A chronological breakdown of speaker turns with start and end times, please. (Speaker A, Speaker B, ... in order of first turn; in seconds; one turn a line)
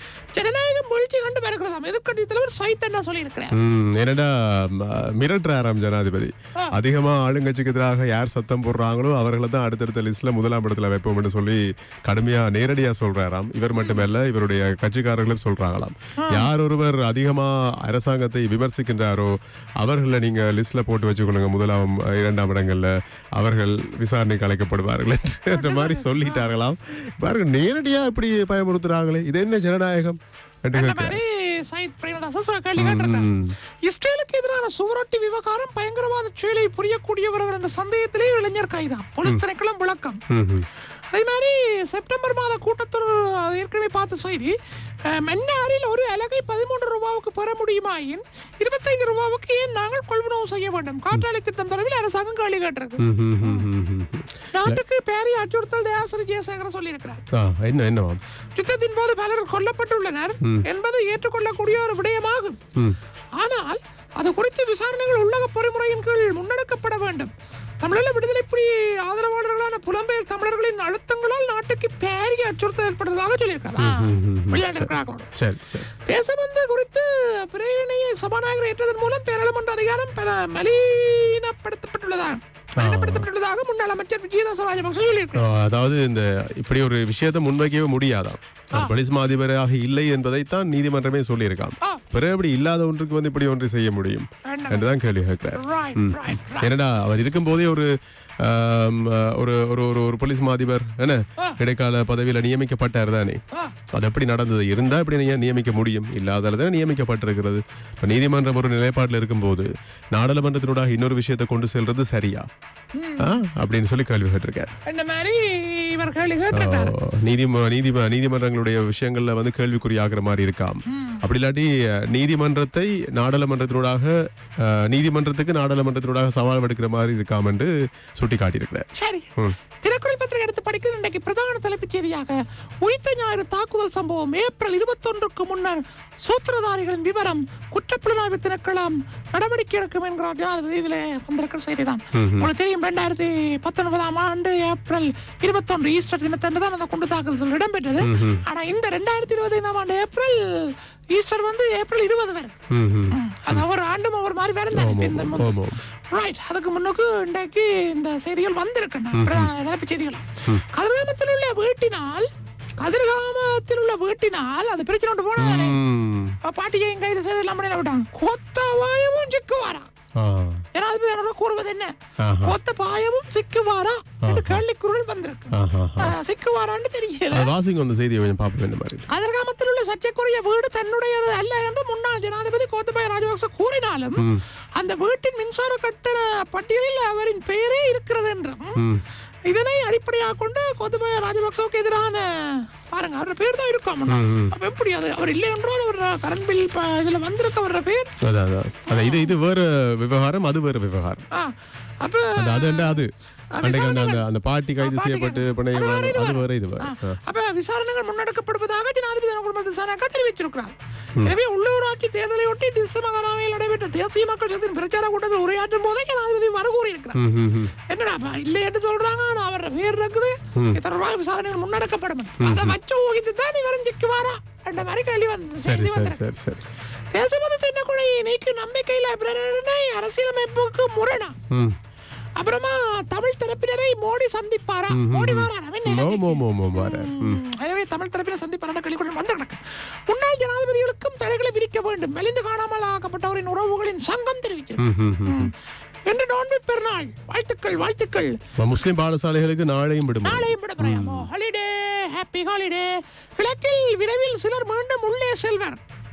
Speaker A: 0.3-3.6
Speaker B: 3.5-31.2
Speaker A: 13.8-14.1
Speaker A: 16.2-16.5
Speaker A: 25.5-26.5
Speaker A: 30.7-40.2
Speaker B: 32.8-33.6
Speaker B: 40.3-40.7
Speaker A: 41.1-44.6
Speaker A: 45.1-53.7
Speaker B: 53.0-54.8
Speaker A: 54.5-57.2
Speaker B: 57.3-58.2
Speaker A: 58.6-62.6
Speaker A: 63.4-75.3
Speaker B: 73.8-75.9
Speaker A: 76.0-85.5
Speaker B: 82.8-83.3
Speaker B: 85.3-112.5
Speaker A: 94.5-95.0
Speaker A: 95.5-96.7
Speaker A: 103.5-103.8
Speaker A: 112.9-113.3
Speaker B: 113.2-114.8
Speaker A: 114.8-116.9
Speaker B: 116.5-128.9
Speaker A: 120.9-121.2
Speaker A: 128.9-152.6
Speaker B: 142.1-142.5
Speaker B: 148.0-148.4
Speaker B: 152.7-153.7
Speaker A: 153.1-162.3
Speaker B: 154.7-155.8
Speaker B: 159.1-159.5
Speaker A: 162.8-165.8
Speaker B: 165.4-166.4
Speaker A: 166.4-169.9
Speaker B: 170.2-170.6
Speaker A: 170.7-177.5
Speaker B: 172.2-172.6
Speaker B: 174.2-174.6
Speaker B: 175.5-176.2
Speaker B: 177.3-179.1
Speaker A: 179.1-188.8
Speaker B: 184.2-184.4
Speaker B: 188.8-189.0
Speaker A: 189.5-198.1
Speaker B: 194.1-194.6
Speaker B: 198.2-201.3
Speaker A: 198.9-199.3
Speaker A: 201.3-204.2
Speaker B: 202.4-207.2
Speaker A: 204.8-217.2
Speaker B: 217.1-217.7
Speaker A: 217.9-226.2
Speaker B: 222.4-222.8
Speaker B: 225.6-226.6
Speaker A: 227.1-231.4
Speaker B: 231.5-231.8
Speaker A: 232.4-245.5
Speaker B: 234.9-237.4
Speaker B: 244.8-245.5
Speaker A: 246.1-248.4
Speaker B: 248.6-251.3
Speaker A: 250.2-255.8